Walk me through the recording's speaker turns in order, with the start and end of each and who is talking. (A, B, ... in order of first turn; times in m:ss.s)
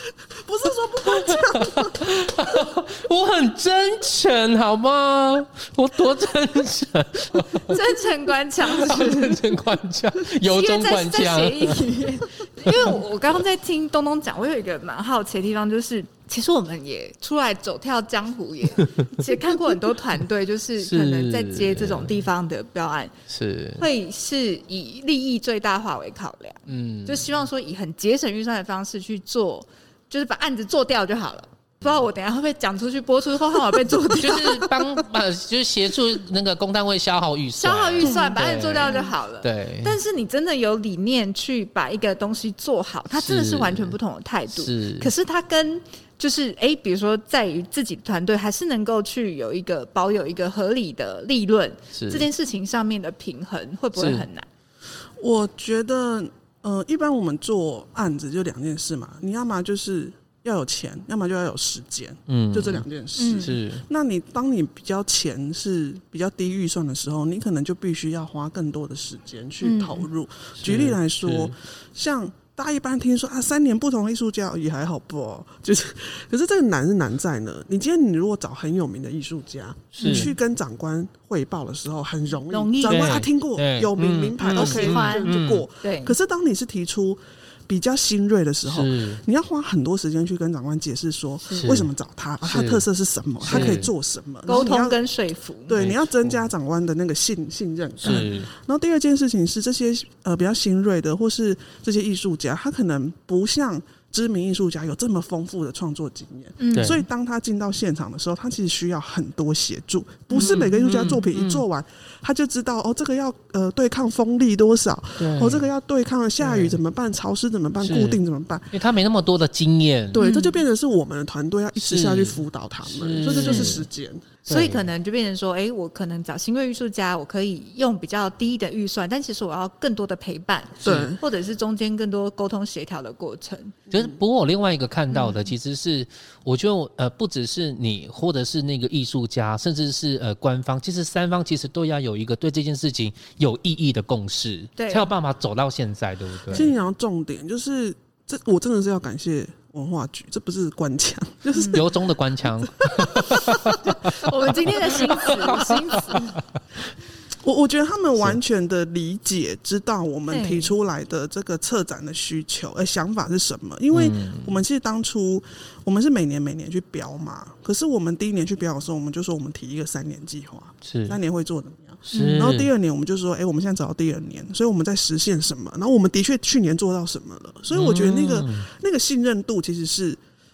0:00.3-0:02.6 A
0:01.0-0:07.8 B
0:07.6-0:09.6 C
0:08.7-0:12.0 B
0:10.4-0:23.1 C
0:12.7-0:12.9 B
0:18.8-0:19.1 B
0:20.8-0:22.2 B
0:23.3-0:23.8 B
0:23.8-0:34.8 C
0:26.7-0:27.3 B
0:34.0-0:40.0 B
0:37.6-0:54.5 C
0:43.1-0:44.0 B
0:44.5-0:45.1 B
0:52.0-0:52.3 B
0:54.0-0:54.2 B
0:55.2-1:35.0 A
1:02.3-1:03.8 B
1:03.2-1:03.5 C
1:09.6-1:10.1 C
1:10.6-1:11.5 B
1:19.9-1:20.3 B
1:20.0-1:20.3 C
1:22.5-1:23.2 C
1:22.8-1:25.6 B
1:24.5-1:26.2 C
1:28.6-1:29.2 B
1:31.5-1:31.9 B
1:32.4-1:32.8 B
1:33.4-1:33.9 B
1:33.5-1:33.8 C
1:34.5-1:35.8 C
1:35.7-1:58.8 A
1:35.8-1:36.4 B
1:38.0-1:38.5 B
1:38.0-1:38.3 C
1:46.6-1:47.0 C
1:46.7-1:47.0 B
1:50.3-1:51.6 B
1:55.2-1:55.7 B
1:56.4-1:56.8 B
1:57.8-1:58.2 B
1:58.7-2:00.2 B
2:00.1-2:04.3 A
2:00.2-2:00.6 C
2:01.8-2:03.9 B
2:03.3-2:03.8 C
2:04.5-2:13.8 C
2:04.5-2:04.9 B
2:10.8-2:11.1 B
2:10.8-2:11.2 A
2:13.9-2:26.7 B
2:13.9-2:14.2 A
2:15.1-2:15.5 C
2:24.8-2:25.1 C
2:26.5-2:34.3 A
2:31.5-2:31.8 C
2:31.7-2:36.4 B
2:33.9-2:36.4 C
2:34.8-2:36.0 A
2:37.4-3:00.2 A
2:40.3-2:40.7 C
2:43.9-2:44.6 B
2:50.8-2:51.2 B
2:52.1-2:52.7 B
2:52.1-2:52.5 C
2:57.7-2:58.7 B